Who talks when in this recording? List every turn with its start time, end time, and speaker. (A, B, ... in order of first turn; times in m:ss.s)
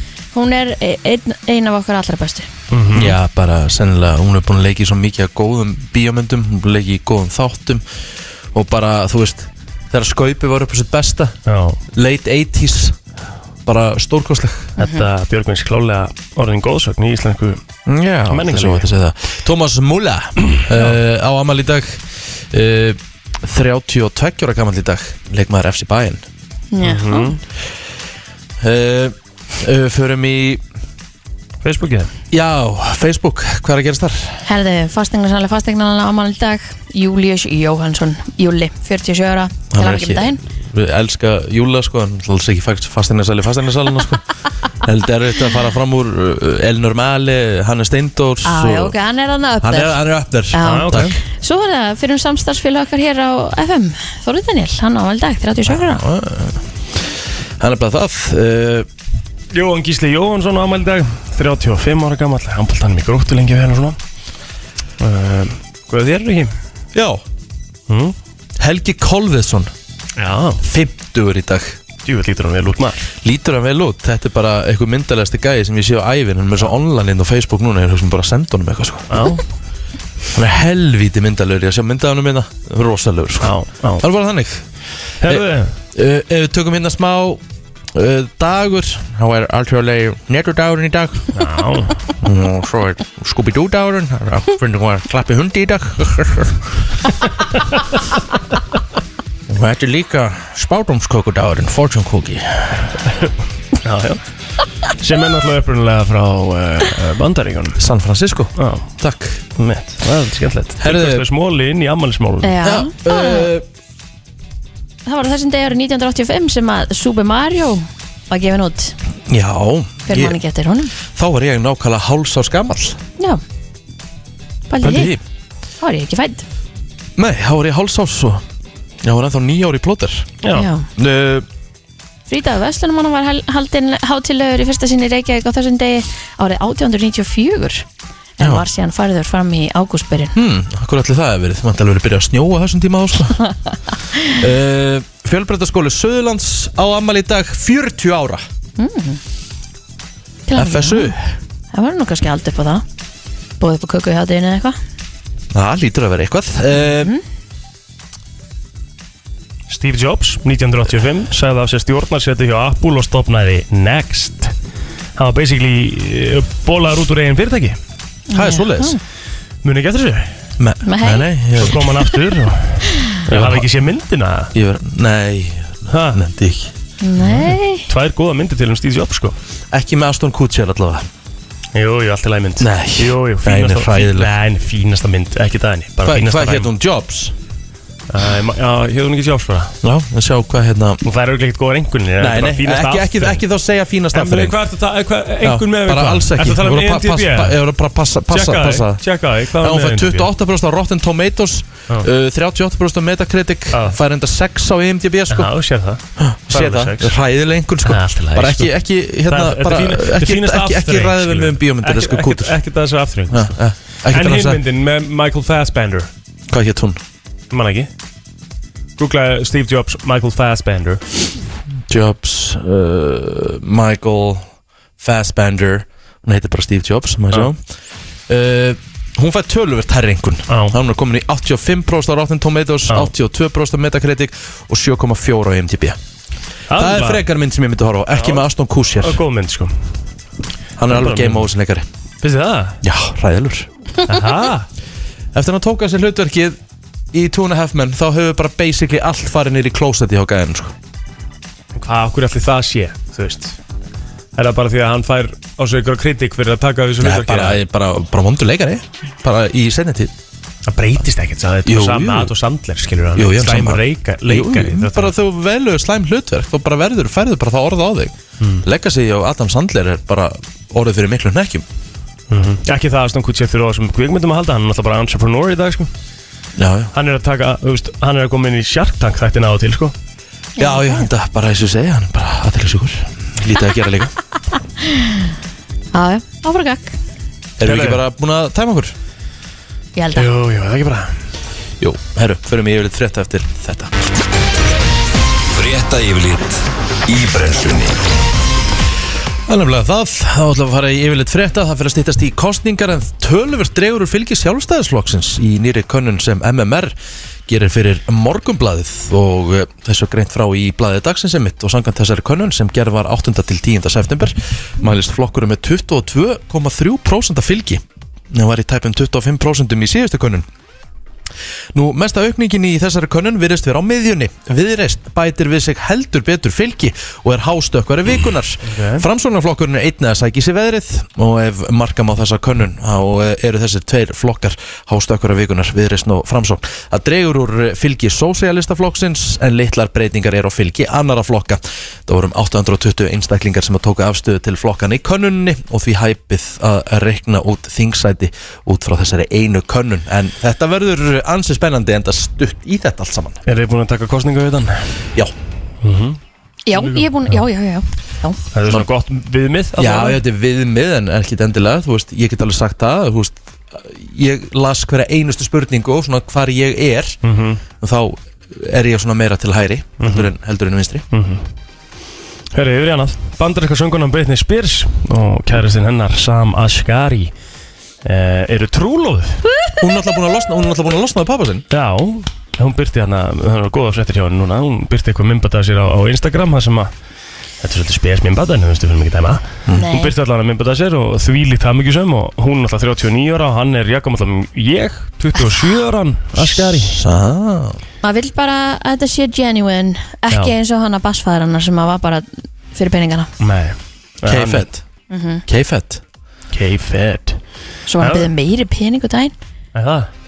0:00.3-0:02.5 A
0:02.7-0:03.2 B
0:02.9-0:07.8 C
0:08.5-0:11.4 C
0:11.4-0:11.8 B
0:11.9-0:13.0 C
0:13.6-0:14.7 C
0:14.8-0:15.0 A
0:14.8-0:17.6 B
0:17.8-0:26.2 C
0:18.3-0:18.8 B
0:20.5-0:21.0 B
0:26.7-0:27.4 A
0:26.8-0:27.4 B
0:28.6-0:30.6 C
0:31.6-0:32.1 B
0:32.3-0:34.4 C
0:34.4-0:40.4 A
0:39.7-0:44.3 C
0:44.8-0:49.0 C
0:48.4-0:50.0 A
0:49.6-0:51.2 C
0:50.5-0:56.0 A
0:50.6-0:51.2 B
0:55.7-0:56.6 C
0:57.6-0:58.9 C
0:59.5-1:04.0 B
1:05.0-1:06.5 B
1:06.9-1:07.2 C
1:07.9-1:08.1 B
1:08.6-1:09.7 C
1:10.2-1:10.6 B
1:10.6-1:11.8 C
1:12.0-1:13.1 B
1:13.2-1:19.2 C
1:19.1-1:19.4 B
1:20.3-1:24.6 C
1:23.4-1:24.0 B
1:25.2-1:25.7 B
1:25.2-1:27.4 C
1:27.9-1:31.3 C
1:31.3-1:32.0 B
1:32.2-1:36.7 C
1:39.5-1:43.0 C
1:43.8-1:44.2 B
1:44.9-1:47.8 B
1:47.8-1:49.4 C
1:48.6-1:48.8 B
1:49.6-1:52.6 B
1:50.8-1:51.2 C
1:52.4-1:53.5 A
1:52.6-1:53.6 C
1:55.0-1:59.0 A
1:59.3-2:00.4 C
2:00.1-2:00.9 A
2:01.0-2:03.0 C
2:04.7-2:05.1 A
2:04.8-2:05.2 C
2:05.8-2:06.4 A
2:07.2-2:08.4 C
2:09.0-2:10.3 C
2:10.4-2:10.7 B
2:10.5-2:10.9 A
2:11.0-2:11.4 C
2:12.3-2:17.8 A
2:18.4-2:20.3 A
2:18.4-2:18.6 C
2:20.3-2:23.4 C
2:24.3-2:28.4 C
2:28.8-2:29.2 A
2:30.5-2:31.1 A
2:30.5-2:31.4 C
2:31.7-2:32.8 A
2:33.6-2:34.8 A
2:35.5-2:37.1 C
2:39.7-2:44.5 B
2:45.2-2:47.8 B
2:48.3-2:49.0 A
2:48.3-2:49.0 C
2:49.6-2:50.3 B
2:50.6-2:51.9 C
2:50.8-2:51.3 A
2:51.5-2:54.5 B
2:53.3-2:53.7 C
2:54.5-2:56.7 C
2:55.9-2:56.2 B
2:57.0-2:57.8 A
2:57.2-2:59.4 B
2:59.7-3:01.1 C
3:01.7-3:06.7 B
3:02.6-3:04.3 C
3:06.0-3:07.3 C
3:08.1-3:09.7 B
3:09.8-3:11.0 C
3:11.0-3:13.4 B
3:12.2-3:14.6 C
3:14.1-3:17.6 B
3:15.4-3:19.0 C
3:18.3-3:20.3 B
3:19.5-3:25.5 C
3:23.7-3:24.0 B
3:25.3-3:27.1 B
3:26.2-3:32.6 C
3:27.8-3:28.7 B
3:29.3-3:33.5 B
3:33.3-3:34.6 C
3:34.1-3:36.1 B
3:36.5-3:37.0 C
3:37.5-3:37.9 B
3:39.0-3:41.0 B
3:41.9-3:44.5 C
3:45.0-3:47.6 C
3:48.3-3:56.0 C
3:50.5-3:50.8 B
3:56.7-3:57.2 B
3:56.8-3:59.2 C
3:58.1-3:58.4 B
3:59.0-3:59.7 B
4:00.8-4:01.9 C
4:00.9-4:01.4 B
4:02.2-4:02.8 B
4:02.8-4:03.7 C
4:04.0-4:04.7 B
4:05.3-4:06.6 C
4:07.1-4:10.7 C
4:11.8-4:13.6 B
4:14.3-4:17.6 B
4:17.0-4:20.1 C
4:20.7-4:25.1 B
4:21.6-4:22.3 C
4:23.2-4:31.6 C
4:28.4-4:28.6 B
4:32.3-4:35.9 B
4:36.6-4:36.9 C
4:36.9-4:39.9 B
4:40.6-4:41.1 A
4:40.6-4:44.1 C
4:44.8-4:45.3 A
4:45.9-4:46.9 A
4:47.6-4:48.9 C
4:47.6-4:48.0 B
4:50.0-4:50.3 A
4:50.1-4:51.1 B
4:51.8-4:53.9 C
4:55.5-4:58.0 D
4:59.5-5:06.9 C
5:07.5-5:20.5 C
5:21.7-5:53.4 C
5:28.6-5:29.0 B
5:53.4-5:54.8 B
5:55.8-5:56.2 B
5:56.7-5:58.4 A
5:56.7-5:57.4 B
5:58.5-6:00.2 B
5:59.8-6:07.2 C
6:07.2-6:07.6 B
6:07.8-6:11.0 C
6:10.0-6:10.3 B
6:11.1-6:11.4 B
6:12.5-6:17.3 B
6:18.0-6:19.4 B
6:19.8-6:21.6 C
6:21.7-6:26.9 B
6:27.6-6:36.9 B
6:29.7-6:30.1 A
6:36.3-6:37.8 C
6:38.0-6:43.3 A
6:43.4-6:44.6 B
6:44.2-6:44.8 C
6:45.1-6:45.4 A
6:45.5-6:46.0 C
6:46.5-6:47.4 B
6:47.9-6:49.3 A
6:48.0-6:48.3 B
6:49.7-6:50.1 B